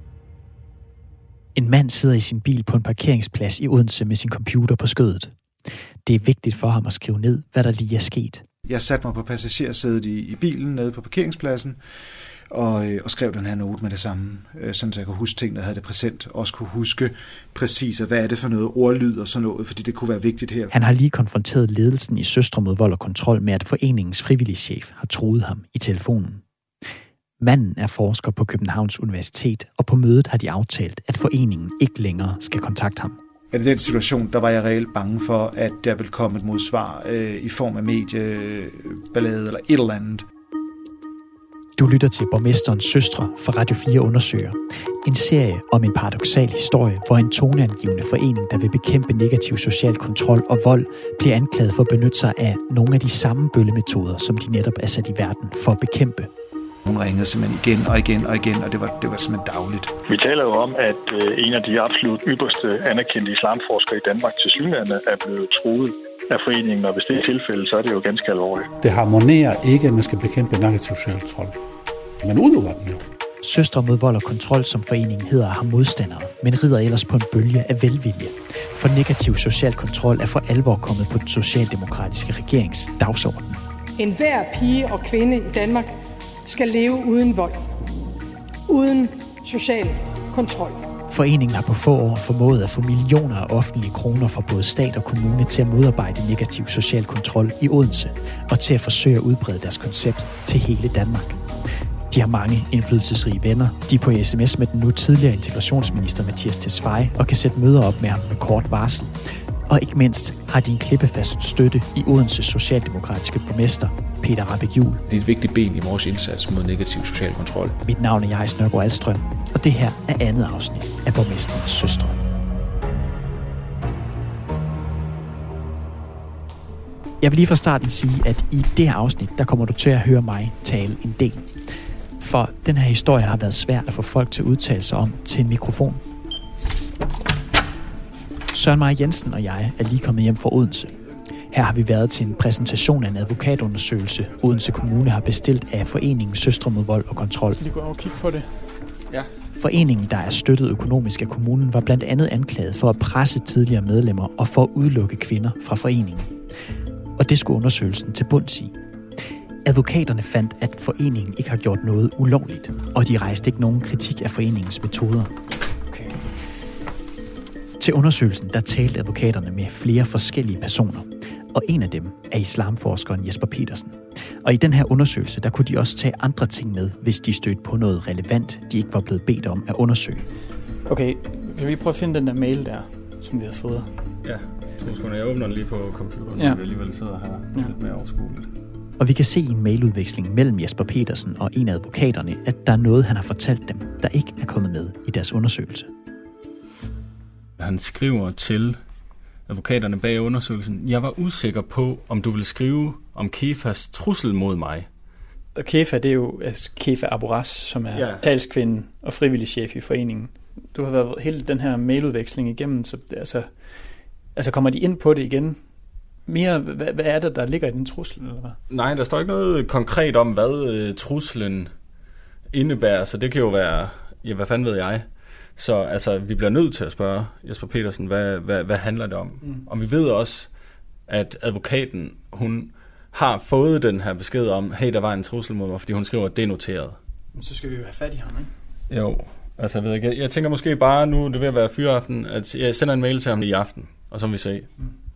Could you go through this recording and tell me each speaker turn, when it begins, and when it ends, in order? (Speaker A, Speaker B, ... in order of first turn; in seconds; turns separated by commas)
Speaker A: 1.6-5.3, Speaker A: 6.0-8.4, Speaker B: 8.7-11.8, Speaker B: 12.5-20.7, Speaker A: 20.7-26.4, Speaker A: 27.4-33.2, Speaker B: 33.5-40.2, Speaker A: 41.8-56.3, Speaker B: 56.9-59.9, Speaker C: 60.1-68.7, Speaker D: 68.8-71.6, Speaker D: 72.2-73.0, Speaker A: 73.4-83.6, Speaker E: 84.0-87.7, Speaker E: 88.7-90.8, Speaker A: 91.1-101.5, Speaker A: 102.1-109.2, Speaker A: 109.7-115.0, Speaker F: 115.1-117.8, Speaker A: 117.8-122.2, Speaker A: 127.2-131.5, Speaker A: 132.2-136.0, Speaker A: 138.5-140.9, Speaker A: 141.5-147.6, Speaker G: 147.6-148.5, Speaker A: 149.6-156.3, Speaker A: 157.2-158.7, Speaker A: 159.7-165.3, Speaker G: 165.9-166.2, Speaker A: 167.8-180.3, Speaker G: 180.9-183.9, Speaker H: 184.2-188.5, Speaker A: 189.0-195.9, Speaker H: 197.6-198.8, Speaker H: 199.5-204.9, Speaker G: 205.6-213.5, Speaker H: 207.9-208.2, Speaker G: 214.4-215.6, Speaker G: 216.3-218.6, Speaker H: 218.7-221.7, Speaker H: 222.5-225.0, Speaker H: 225.6-230.5, Speaker H: 231.1-237.0, Speaker G: 237.3-238.5, Speaker H: 238.9-244.7